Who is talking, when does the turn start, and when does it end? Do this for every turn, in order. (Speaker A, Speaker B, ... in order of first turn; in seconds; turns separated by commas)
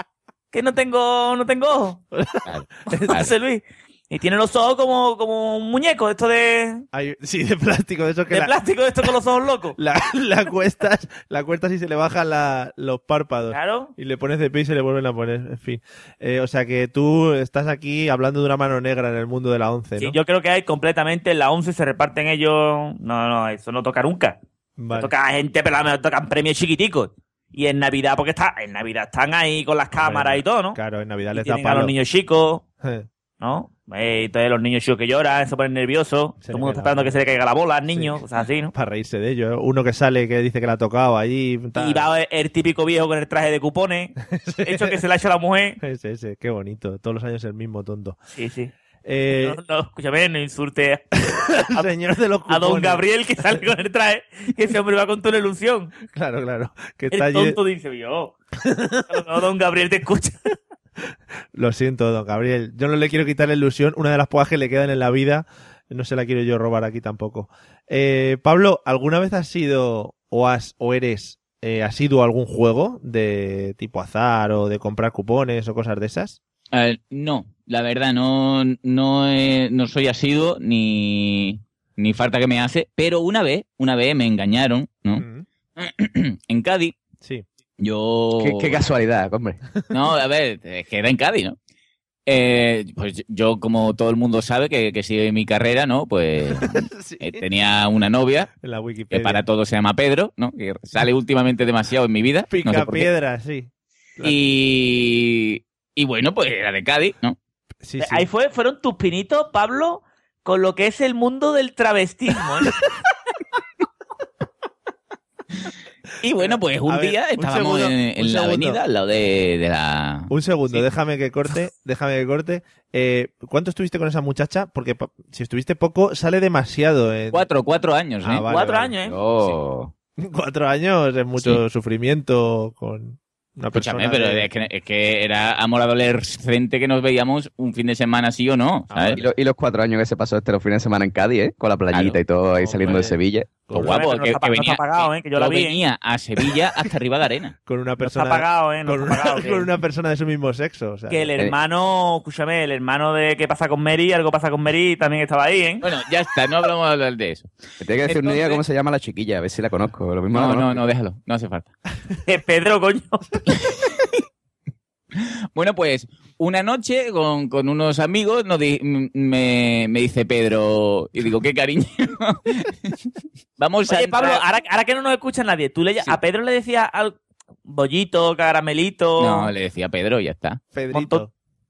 Speaker A: 0.5-2.0, Speaker B: 2.1-3.2, Speaker C: 2.5-3.3, Speaker A: 3.1-6.8, Speaker B: 6.9-8.5, Speaker A: 8.3-9.8, Speaker B: 9.8-20.2, Speaker A: 13.5-13.9, Speaker A: 20.0-24.4, Speaker B: 24.8-25.1, Speaker A: 24.9-30.8, Speaker B: 30.0-31.9, Speaker A: 31.3-32.6, Speaker A: 33.4-38.7, Speaker B: 36.4-37.2, Speaker B: 37.9-38.2, Speaker B: 38.7-42.1, Speaker A: 41.8-44.1, Speaker B: 44.3-45.0, Speaker A: 44.6-45.8, Speaker B: 45.8-48.2, Speaker A: 48.3-48.7, Speaker B: 49.0-49.6, Speaker A: 49.3-51.9, Speaker B: 51.3-53.0, Speaker A: 52.5-55.9, Speaker B: 56.1-57.6, Speaker A: 57.1-58.3, Speaker B: 58.6-59.0, Speaker A: 59.1-60.4, Speaker B: 61.5-76.4, Speaker C: 76.7-85.2, Speaker B: 85.2-85.5, Speaker C: 85.8-87.0, Speaker C: 87.8-88.8, Speaker D: 88.4-89.6, Speaker C: 89.9-91.5, Speaker C: 92.2-98.5, Speaker B: 96.5-97.5, Speaker B: 98.6-99.4, Speaker C: 99.1-103.1, Speaker B: 102.5-104.4, Speaker C: 104.2-107.4, Speaker B: 107.8-108.2, Speaker A: 108.0-112.7, Speaker C: 116.2-120.9, Speaker B: 116.4-118.8, Speaker B: 120.3-127.4, Speaker C: 127.3-128.4, Speaker B: 128.2-128.9, Speaker A: 128.5-129.2, Speaker D: 129.0-129.9, Speaker B: 130.2-134.5, Speaker C: 133.7-139.2, Speaker B: 138.9-139.3, Speaker D: 139.2-143.5, Speaker C: 141.9-142.2, Speaker B: 142.6-143.2, Speaker B: 143.7-144.0, Speaker C: 143.7-147.5, Speaker A: 143.8-145.8, Speaker B: 147.7-151.3, Speaker A: 148.0-149.7, Speaker A: 151.1-155.8, Speaker C: 155.8-157.5, Speaker D: 157.8-160.8, Speaker C: 158.0-158.6, Speaker C: 160.3-161.7, Speaker A: 162.2-163.4, Speaker C: 165.2-173.1, Speaker C: 173.6-174.4, Speaker A: 173.9-179.5, Speaker C: 179.2-180.6, Speaker B: 180.7-181.3, Speaker A: 180.9-181.2